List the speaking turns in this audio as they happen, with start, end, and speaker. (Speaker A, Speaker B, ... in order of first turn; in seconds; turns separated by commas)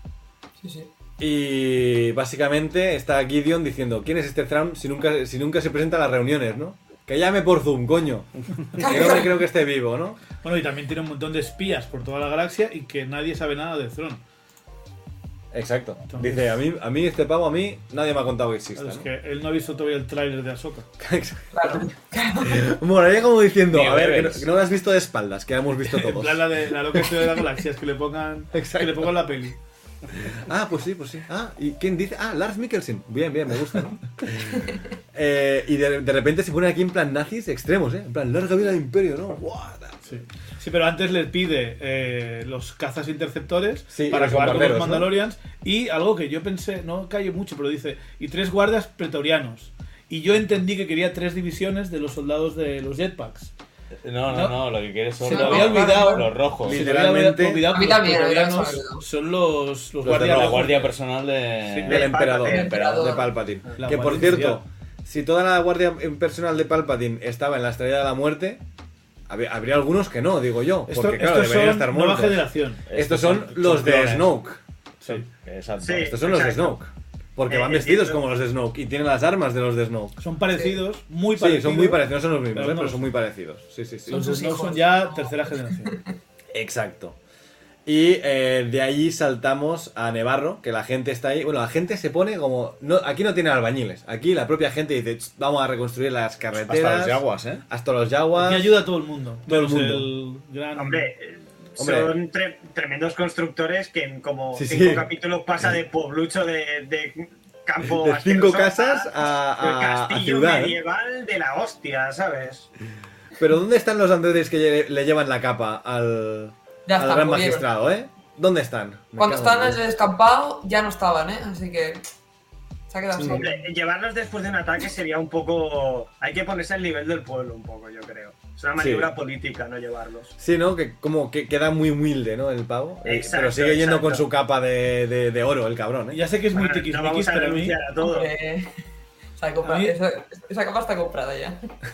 Speaker A: 0.6-0.9, Speaker B: 1.2-10.2, Speaker A: 8.8-9.3, Speaker C: 10.4-14.2, Speaker B: 15.5-19.1, Speaker C: 16.1-16.4, Speaker C: 18.8-20.9, Speaker B: 21.0-21.9, Speaker A: 21.5-22.6, Speaker B: 22.4-27.4, Speaker D: 23.7-24.5, Speaker C: 25.9-29.6, Speaker B: 28.5-29.2, Speaker B: 30.2-40.1, Speaker C: 40.1-53.5, Speaker B: 43.9-45.1, Speaker D: 54.0-56.8, Speaker C: 54.3-54.6, Speaker A: 55.2-56.3, Speaker C: 55.2-60.9, Speaker B: 56.6-57.7, Speaker A: 57.7-59.0, Speaker D: 60.0-62.1, Speaker B: 60.0-60.7, Speaker E: 61.8-62.7, Speaker B: 61.9-68.6, Speaker A: 62.4-63.3, Speaker C: 63.8-64.6, Speaker B: 69.3-74.6, Speaker C: 70.9-72.9, Speaker D: 72.9-74.0, Speaker C: 73.6-74.2, Speaker D: 75.0-76.2, Speaker E: 75.8-76.8, Speaker B: 76.0-80.2, Speaker E: 77.5-78.2, Speaker C: 80.2-83.1, Speaker B: 81.4-84.2, Speaker C: 84.1-86.0, Speaker A: 84.1-86.1, Speaker B: 86.5-87.2, Speaker B: 87.9-98.8, Speaker D: 96.6-97.6, Speaker C: 98.3-101.1, Speaker B: 99.5-100.1, Speaker E: 100.8-112.7, Speaker B: 101.8-102.1, Speaker B: 104.5-105.1, Speaker B: 107.8-110.8, Speaker B: 113.4-119.8, Speaker A: 116.9-117.7, Speaker A: 119.2-122.0, Speaker A: 122.9-123.6, Speaker B: 123.2-123.5, Speaker E: 123.2-130.3, Speaker B: 128.8-129.1, Speaker B: 130.4-136.2, Speaker E: 133.0-134.2, Speaker C: 136.1-137.8, Speaker E: 136.5-138.3, Speaker A: 138.0-138.7, Speaker A: 139.4-141.6, Speaker C: 139.6-139.9